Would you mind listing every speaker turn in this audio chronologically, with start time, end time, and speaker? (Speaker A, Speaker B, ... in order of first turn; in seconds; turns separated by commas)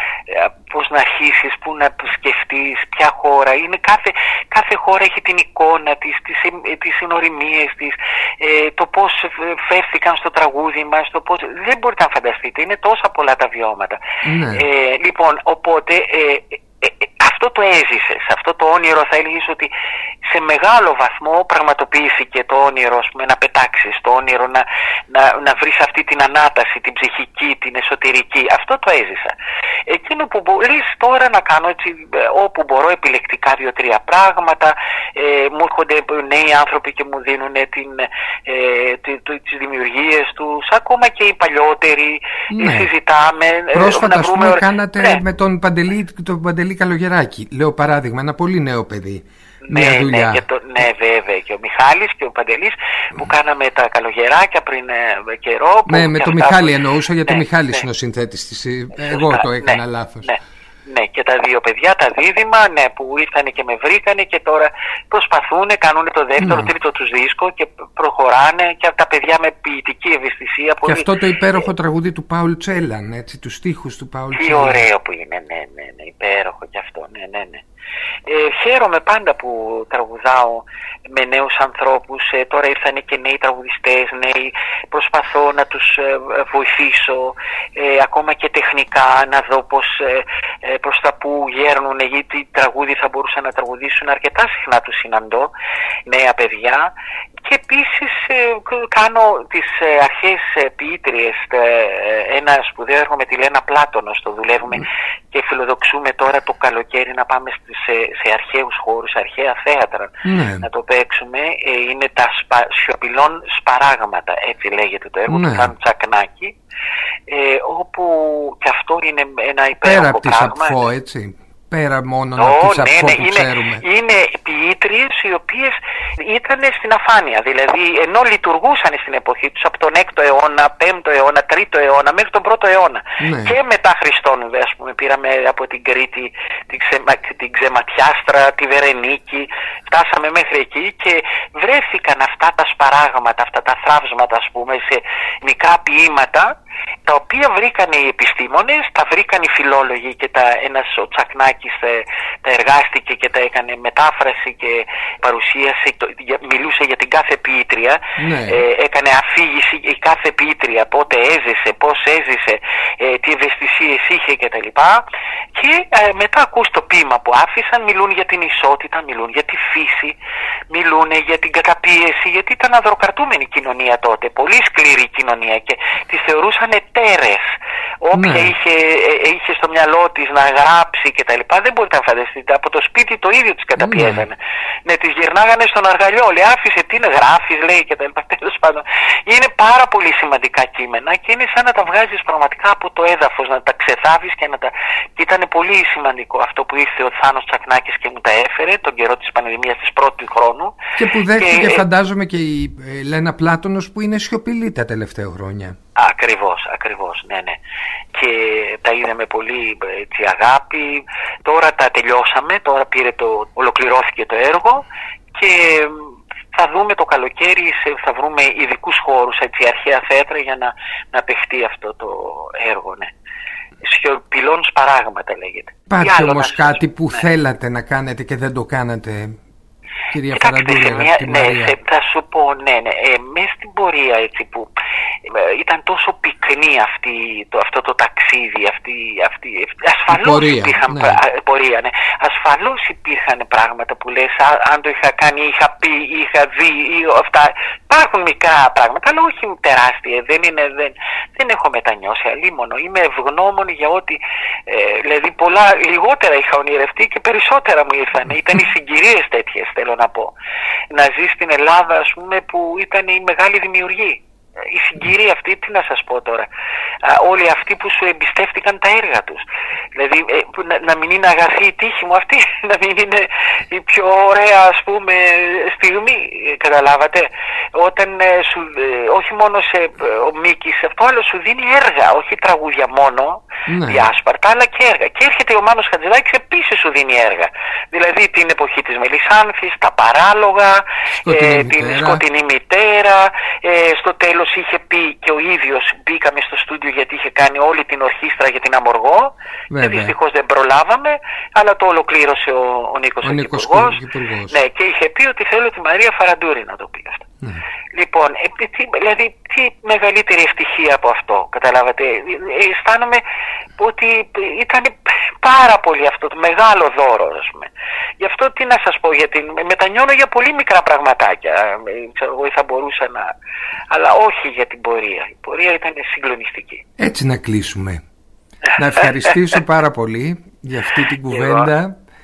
Speaker A: 0.3-14.0, Speaker B: 14.2-14.7, Speaker A: 14.5-19.7, Speaker A: 20.2-45.2, Speaker B: 42.5-42.9, Speaker B: 43.7-50.4, Speaker A: 49.6-56.7, Speaker B: 55.9-60.4, Speaker A: 57.3-57.9, Speaker A: 59.0-71.6, Speaker B: 66.4-66.7, Speaker B: 70.8-74.8, Speaker A: 74.3-77.7, Speaker A: 78.3-95.5, Speaker A: 96.1-116.5, Speaker B: 110.2-110.7, Speaker B: 115.3-115.7, Speaker A: 117.3-120.8, Speaker B: 119.8-123.8, Speaker A: 122.4-170.2, Speaker B: 133.2-133.6, Speaker B: 158.2-158.6, Speaker A: 170.7-177.5, Speaker A: 178.0-200.8, Speaker B: 178.2-178.5, Speaker B: 183.8-184.3, Speaker B: 201.0-205.8, Speaker A: 201.3-201.8, Speaker A: 206.0-207.6, Speaker A: 208.1-223.1, Speaker A: 223.8-227.2, Speaker B: 225.9-229.4, Speaker B: 230.1-231.8, Speaker A: 230.3-234.7, Speaker A: 235.2-260.4, Speaker B: 240.1-241.2, Speaker A: 260.9-266.5, Speaker A: 267.0-307.3, Speaker B: 283.7-284.1, Speaker B: 291.2-292.2, Speaker B: 299.7-300.1, Speaker B: 303.2-304.6, Speaker A: 307.9-313.2, Speaker A: 313.8-323.3, Speaker A: 323.9-326.8, Speaker B: 327.0-328.0, Speaker A: 328.7-329.6, Speaker B: 328.8-331.9, Speaker A: 331.3-331.7